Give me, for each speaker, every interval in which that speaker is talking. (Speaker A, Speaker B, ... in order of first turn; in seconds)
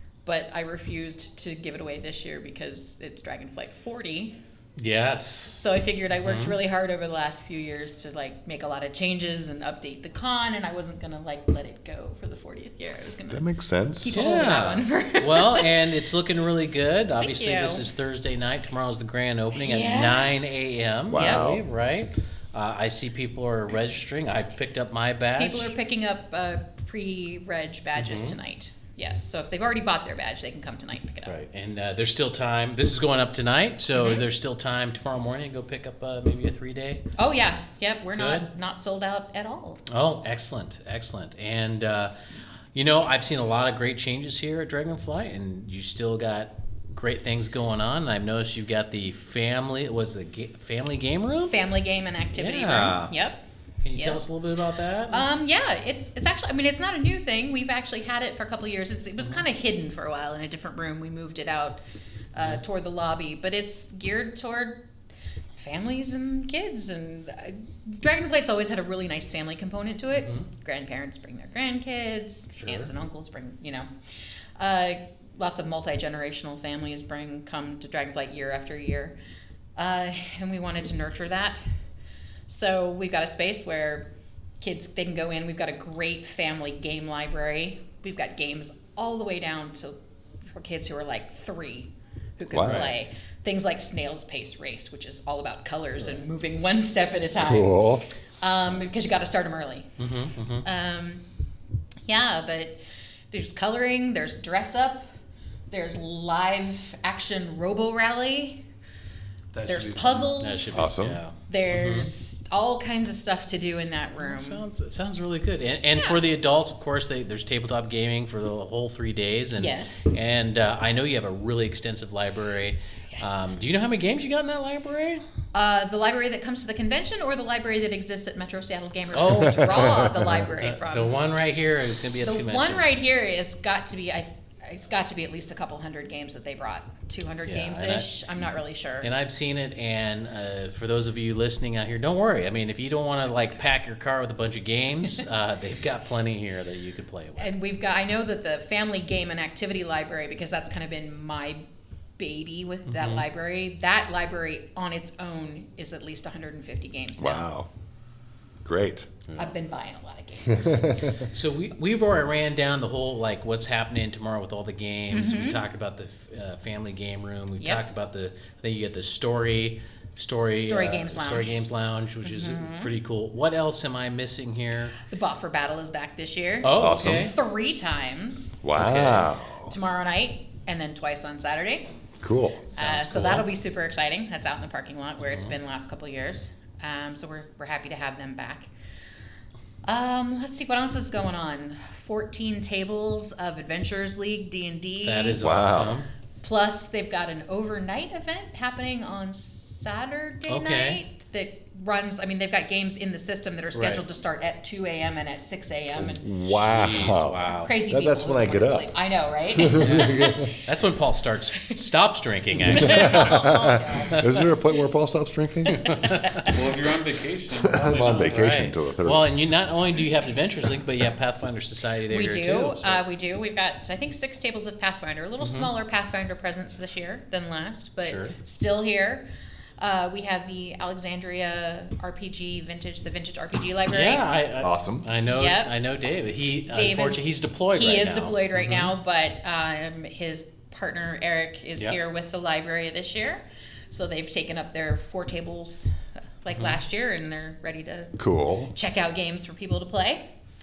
Speaker A: 0.2-4.4, 5.6-13.5, 14.0-15.7, 17.2-17.9, 19.6-20.4, 21.1-21.5, 25.4-31.4, 34.0-34.3, 37.2-39.8, 51.5-53.4, 54.0-54.2, 55.1-61.8, 62.3-64.8, 65.6-73.9, 74.6-79.2, 79.8-81.6, 82.5-84.1, 84.6-90.0, 90.5-99.9, 100.6-101.2, 102.1-105.0, 105.7-108.6, 109.7-110.9, 111.5-114.6, 116.0-116.2, 119.6-120.2, 123.1-123.4, 125.5-131.2, 132.2-139.1, 147.4-151.6, 152.2-157.4, 159.4-161.1, 165.1-165.6, 170.4-171.6, 172.2-172.9, 175.1-178.6, 179.7-181.9, 182.8-188.7, 189.8-195.4, 196.4-206.4, 206.9-210.5, 212.7-214.5, 222.1-229.3, 229.8-234.3, 235.2-235.7, 236.7-248.2, 248.7-250.2
Speaker B: 4.8-5.6, 6.2-6.6, 14.1-25.7, 28.0-28.4, 31.2-37.0, 38.1-38.5, 39.9-42.1, 42.7-51.6, 52.3-53.1, 53.8-55.3, 70.1-70.5, 72.5-72.9, 100.0-100.7, 110.4-112.1, 114.2-125.2, 129.1-132.9, 137.4-138.1, 139.0-147.6, 152.9-153.2, 159.3-159.6, 161.3-174.9, 176.6-177.3, 178.8-179.3, 182.8-183.4, 185.2-185.6, 195.0-196.1, 200.5-201.0, 203.7-204.0, 206.5-207.8, 209.8-213.4, 215.7-216.5, 218.2-223.0, 225.4-225.7, 228.0-228.4, 233.9-238.9
Speaker C: 13.3-14.2, 21.1-21.6, 92.5-92.9, 97.4-98.1, 110.7-111.2, 129.5-130.4, 157.2-157.7, 158.6-159.2, 160.5-161.2, 176.8-177.3, 178.6-179.8, 182.2-183.4, 195.4-196.0, 205.9-208.9, 209.5-210.5, 212.7-216.0, 217.6-219.4, 234.6-235.1, 248.2-248.7
Speaker D: 109.5-110.3, 216.4-218.5